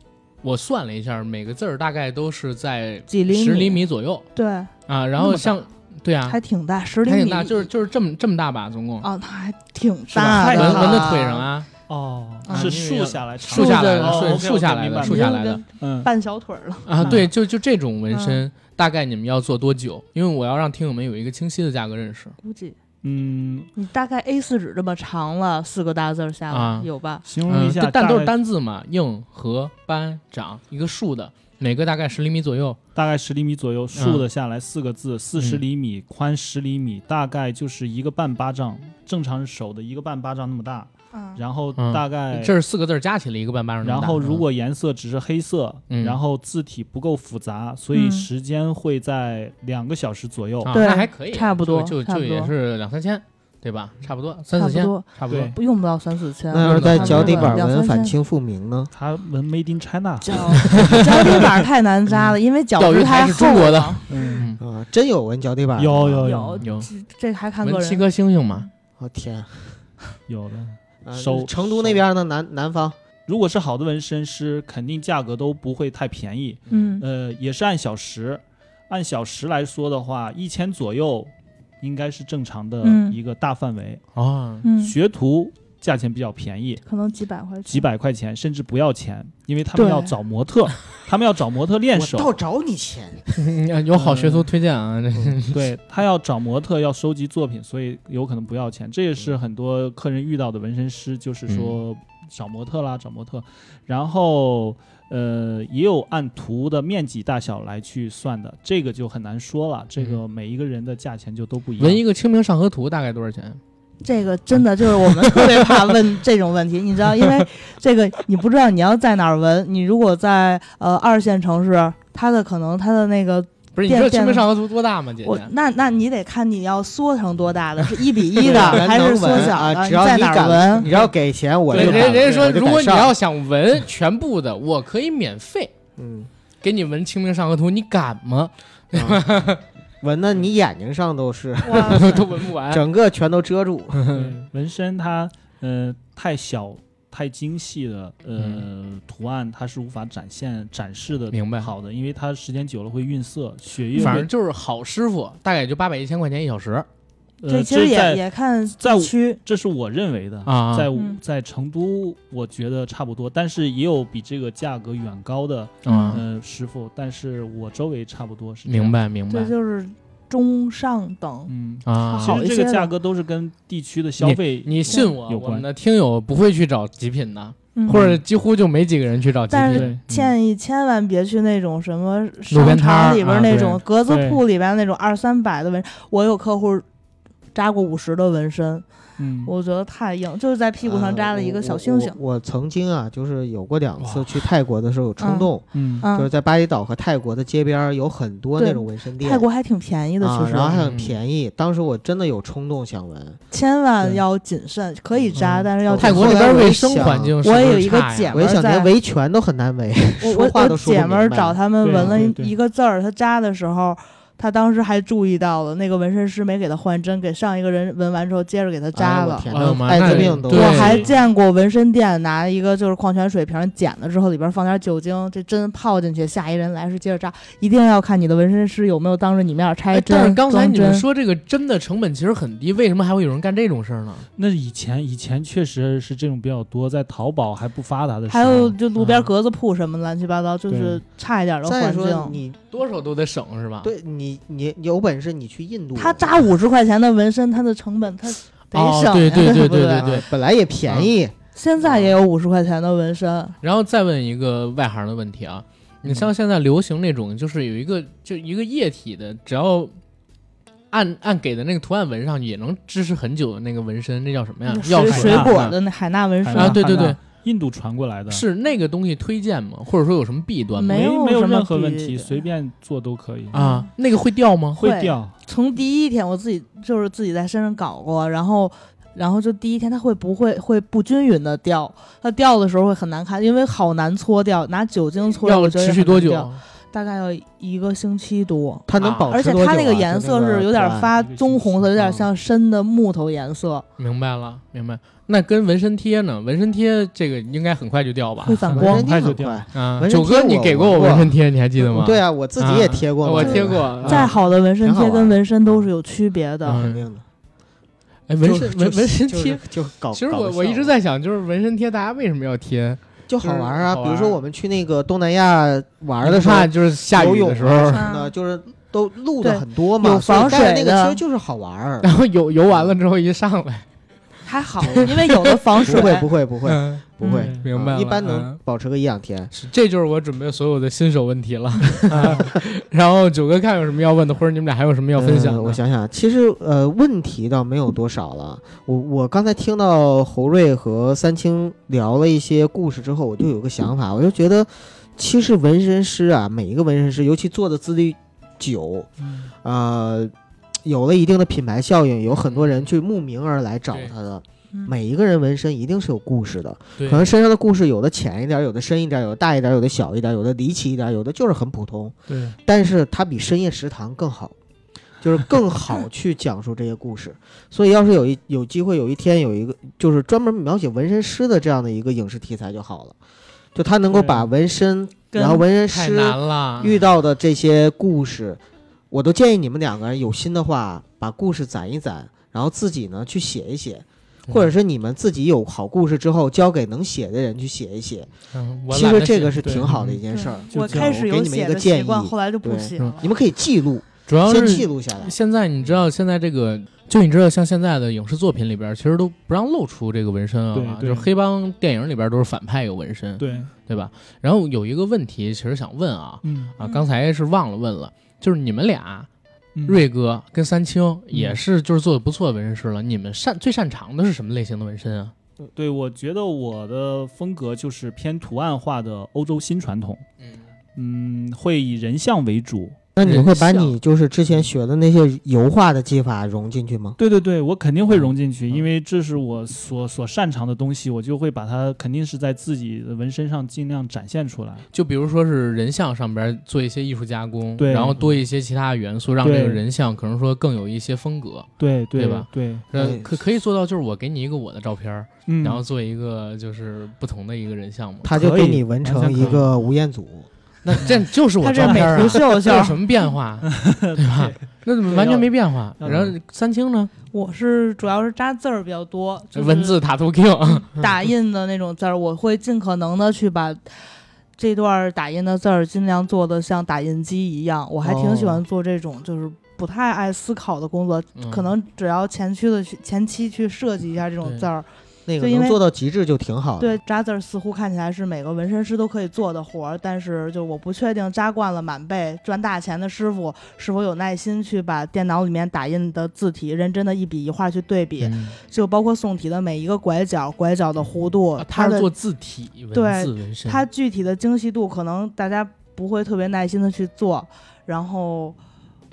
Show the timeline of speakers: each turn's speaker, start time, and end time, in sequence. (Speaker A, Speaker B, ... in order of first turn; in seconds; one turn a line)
Speaker A: 0.4-4.2
Speaker B: 3.1-4.7
Speaker A: 4.9-6.4
Speaker C: 5.2-5.6
Speaker B: 6.3-7.7
Speaker A: 7.0-9.1
Speaker B: 9.0-11.4
Speaker C: 10.1-11.3
Speaker A: 10.3-11.7
Speaker C: 11.9-16.1
Speaker B: 12.5-12.8
Speaker A: 12.5-15.6
Speaker B: 13.5-14.4
Speaker B: 15.0-17.3
Speaker A: 16.9-22.4
Speaker C: 17.0-17.3
Speaker B: 18.1-18.4
Speaker B: 22.4-22.8
Speaker C: 23.0-23.7
Speaker B: 23.8-27.2
Speaker A: 26.5-26.9
Speaker C: 27.2-28.3
Speaker A: 27.4-32.8
Speaker C: 32.9-42.5
Speaker A: 33.9-34.2
Speaker A: 35.4-35.6
Speaker B: 41.1-41.4
Speaker A: 41.8-44.4
Speaker C: 43.8-50.8
Speaker A: 45.9-46.2
Speaker B: 47.9-48.3
Speaker A: 50.6-55.5
Speaker B: 50.7-52.5
Speaker B: 54.5-58.1
Speaker C: 55.3-55.5
Speaker D: 56.5-58.9
Speaker A: 56.6-57.5
Speaker C: 58.9-61.5
Speaker B: 60.2-64.4
Speaker A: 60.7-61.3
Speaker A: 62.8-64.6
Speaker C: 64.1-64.5
Speaker D: 64.6-66.4
Speaker C: 65.8-66.7
Speaker B: 66.2-68.0
Speaker A: 66.6-66.9
Speaker A: 67.6-68.7
Speaker D: 69.0-69.8
Speaker C: 70.3-72.0
Speaker D: 71.0-73.0
Speaker C: 73.2-84.0
Speaker B: 76.7-77.0
Speaker B: 82.8-83.2
Speaker A: 84.1-84.7
Speaker B: 84.6-85.0
Speaker C: 84.7-86.8
Speaker B: 86.8-87.9
Speaker C: 87.6-92.3
Speaker B: 89.7-90.1
Speaker D: 91.9-93.2
Speaker A: 93.3-95.7
Speaker C: 93.9-94.5
Speaker C: 95.5-112.0
Speaker A: 101.5-101.8
Speaker A: 111.8-113.6
Speaker B: 114.0-124.5
Speaker A: 114.6-115.6
Speaker A: 123.7-125.5
Speaker B: 125.2-130.9
Speaker D: 128.3-133.1
Speaker C: 130.8-131.1
Speaker A: 131.7-135.7
Speaker C: 131.7-132.5
Speaker D: 136.0-136.3
Speaker A: 136.6-139.6
Speaker D: 138.9-139.2
Speaker D: 140.0-144.0
Speaker B: 141.6-142.2
Speaker A: 141.8-142.8
Speaker A: 144.0-144.3
Speaker C: 144.1-154.3
Speaker A: 148.4-148.6
Speaker A: 151.3-151.7
Speaker B: 153.9-154.2
Speaker A: 153.9-156.9
Speaker C: 157.4-158.2
Speaker B: 157.5-159.4
Speaker C: 158.8-169.0
Speaker A: 160.4-160.9
Speaker B: 160.9-161.2
Speaker A: 165.8-166.2
Speaker B: 165.8-166.2
Speaker A: 168.7-169.5
Speaker B: 169.3-171.5
Speaker C: 171.5-175.7
Speaker A: 171.8-172.4
Speaker B: 172.0-172.9
Speaker A: 174.2-180.3
Speaker B: 174.9-175.1
Speaker B: 177.7-178.1
Speaker C: 177.9-178.2
Speaker B: 179.5-186.8
Speaker C: 179.7-180.0
Speaker A: 182.5-183.8
Speaker C: 184.1-184.4
Speaker B: 187.5-188.8
Speaker C: 189.2-189.5
Speaker B: 189.4-192.2
Speaker D: 190.8-199.4
Speaker B: 195.2-195.5
Speaker C: 195.7-196.0
Speaker B: 196.0-196.3
Speaker B: 198.6-200.8
Speaker D: 200.2-203.4
Speaker A: 200.8-201.2
Speaker B: 203.5-206.7
Speaker D: 205.1-207.4
Speaker A: 205.3-208.4
Speaker B: 207.4-208.9
Speaker D: 208.3-212.2
Speaker B: 210.2-219.5
Speaker C: 211.8-212.5
Speaker D: 218.9-221.1
Speaker A: 219.5-221.0
Speaker C: 220.0-221.2
Speaker B: 220.5-231.0
Speaker A: 229.9-234.3
Speaker C: 234.3-238.8
Speaker B: 238.3-242.4
Speaker C: 240.7-241.0
Speaker D: 241.6-242.6
Speaker A: 242.7-243.9
Speaker D: 243.8-246.4
Speaker B: 245.9-250.1
Speaker A: 248.7-250.3
Speaker D: 249.3-251.3
Speaker B: 251.5-253.6
Speaker A: 253.6-259.9
Speaker A: 260.9-265.8
Speaker B: 264.7-266.9
Speaker C: 264.9-265.5
Speaker C: 266.4-268.4
Speaker A: 266.5-267.2
Speaker A: 268.3-271.0
Speaker B: 270.8-272.4
Speaker C: 270.9-273.5
Speaker B: 273.5-273.9
Speaker A: 273.5-274.8
Speaker C: 274.7-275.3
Speaker B: 274.8-293.8
Speaker A: 285.4-286.6
Speaker D: 288.9-291.1
Speaker A: 288.9-289.3
Speaker C: 291.1-291.9
Speaker A: 294.0-298.8
Speaker B: 298.4-299.1
Speaker C: 298.8-299.6
Speaker D: 298.8-305.9
Speaker A: 299.7-304.3
Speaker B: 303.4-306.8
Speaker A: 306.6-307.0
Speaker D: 306.7-307.2
Speaker A: 308.3-314.4
Speaker D: 308.4-310.9
Speaker D: 313.3-322.1
Speaker A: 316.2-318.0
Speaker B: 317.9-318.3
Speaker B: 319.4-321.2
Speaker A: 322.0-323.8
Speaker D: 322.7-323.0
Speaker B: 324.4-326.3
Speaker D: 324.8-325.1
Speaker A: 324.8-326.1
Speaker D: 325.8-329.5
Speaker A: 326.6-328.6
Speaker B: 327.2-327.5
Speaker C: 327.2-327.7
Speaker A: 329.5-335.8
Speaker D: 332.1-332.5
Speaker C: 332.1-332.5
Speaker D: 335.1-349.1
Speaker C: 349.2-349.5
Speaker D: 349.6-350.3
Speaker D: 350.8-364.5
Speaker A: 352.4-352.8
Speaker A: 357.0-357.3
Speaker C: 362.3-362.6
Speaker D: 365.2-373.1
Speaker D: 373.7-378.6
Speaker C: 374.1-374.5
Speaker B: 375.3-375.6
Speaker A: 375.9-377.0
Speaker D: 379.1-388.3
Speaker A: 388.5-390.2
Speaker D: 388.9-395.3
Speaker C: 389.6-390.1
Speaker B: 390.3-393.3
Speaker C: 390.7-391.1
Speaker A: 394.3-409.3
Speaker C: 400.7-401.3
Speaker C: 403.4-403.7
Speaker C: 406.4-406.7
Speaker C: 409.7-410.0
Speaker A: 409.9-415.3
Speaker C: 411.3-411.6
Speaker C: 415.7-420.2
Speaker C: 420.9-423.4
Speaker D: 423.1-427.2
Speaker A: 423.2-423.9
Speaker C: 427.2-434.8
Speaker A: 434.9-448.3
Speaker C: 437.8-438.4
Speaker C: 439.4-439.8
Speaker C: 441.8-442.8
Speaker D: 442.9-443.4
Speaker C: 445.5-445.8
Speaker D: 448.2-450.5
Speaker C: 448.3-449.7
Speaker A: 450.8-457.1
Speaker B: 451.6-452.9
Speaker C: 451.8-452.8
Speaker C: 453.7-455.5
Speaker C: 456.0-456.3
Speaker B: 457.3-460.0
Speaker A: 459.6-460.9
Speaker B: 460.6-464.0
Speaker B: 464.6-474.9
Speaker D: 468.0-468.6
Speaker A: 471.4-471.7
Speaker D: 475.3-477.0
Speaker B: 475.4-475.8
Speaker B: 476.8-492.1
Speaker A: 488.2-488.6
Speaker A: 491.6-493.8
Speaker B: 492.9-498.6